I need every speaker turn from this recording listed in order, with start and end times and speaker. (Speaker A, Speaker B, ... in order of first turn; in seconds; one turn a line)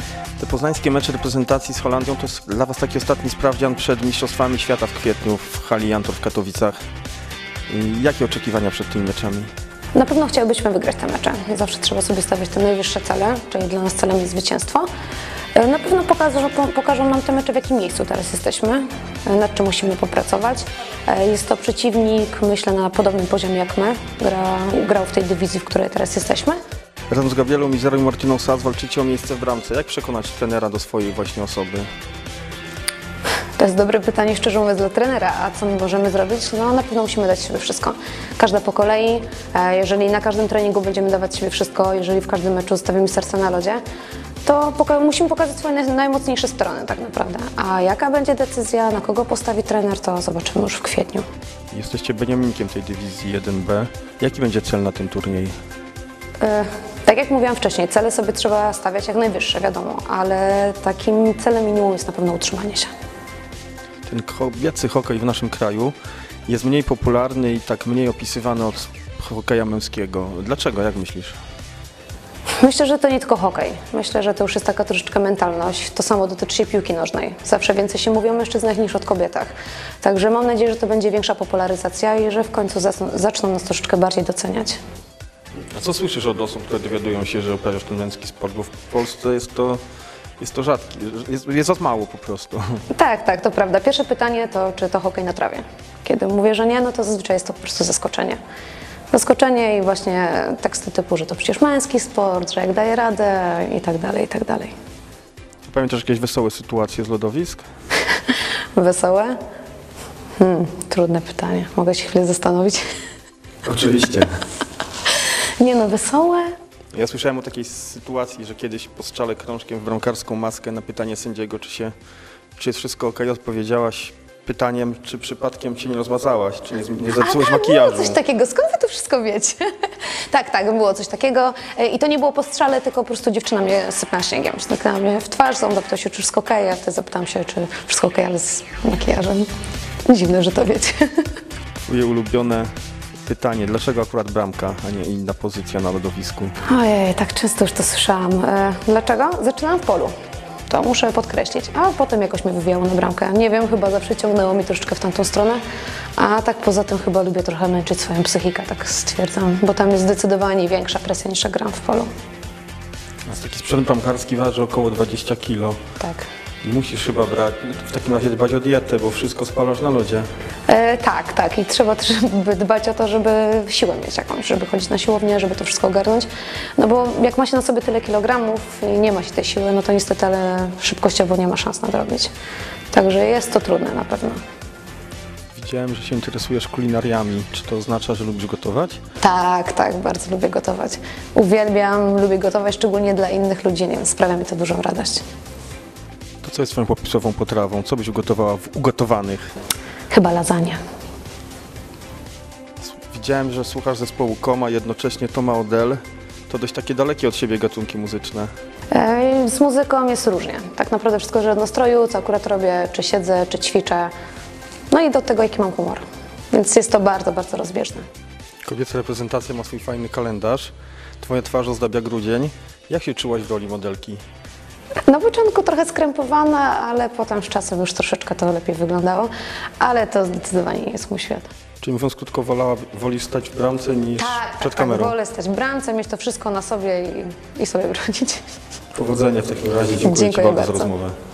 Speaker A: 0.4-6.8
Speaker A: 7.7-9.5
Speaker B: 9.9-14.9
Speaker B: 15.6-26.6
Speaker A: 27.1-31.9
Speaker B: 33.6-43.8
Speaker B: 44.4-51.3
Speaker A: 51.7-55.6
Speaker B: 56.4-62.9
Speaker A: 64.1-71.4
Speaker B: 72.6-84.8
Speaker A: 85.7-89.8
Speaker A: 90.4-92.8
Speaker B: 92.9-98.4
Speaker B: 99.1-104.8
Speaker A: 105.6-107.7
Speaker B: 108.1-109.4
Speaker B: 110.4-112.8
Speaker A: 113.6-114.3
Speaker B: 115.1-116.5
Speaker A: 116.9-121.9
Speaker A: 122.6-128.2
Speaker B: 127.2-139.5
Speaker B: 140.1-141.3
Speaker A: 141.9-142.7
Speaker A: 143.3-146.6
Speaker B: 146.6-150.1
Speaker B: 150.7-155.6
Speaker B: 156.2-162.1
Speaker A: 163.3-165.8
Speaker B: 166.0-166.3
Speaker A: 166.6-170.3
Speaker B: 170.7-182.3
Speaker B: 182.9-184.4
Speaker A: 185.5-189.0
Speaker B: 189.2-195.2
Speaker A: 196.4-199.5
Speaker B: 200.1-200.8
Speaker A: 202.8-208.5
Speaker B: 208.9-214.1
Speaker B: 214.9-218.1
Speaker A: 218.7-224.2
Speaker B: 225.1-231.5
Speaker A: 231.8-235.2
Speaker B: 234.2-238.5
Speaker A: 238.9-241.2
Speaker B: 240.0-240.9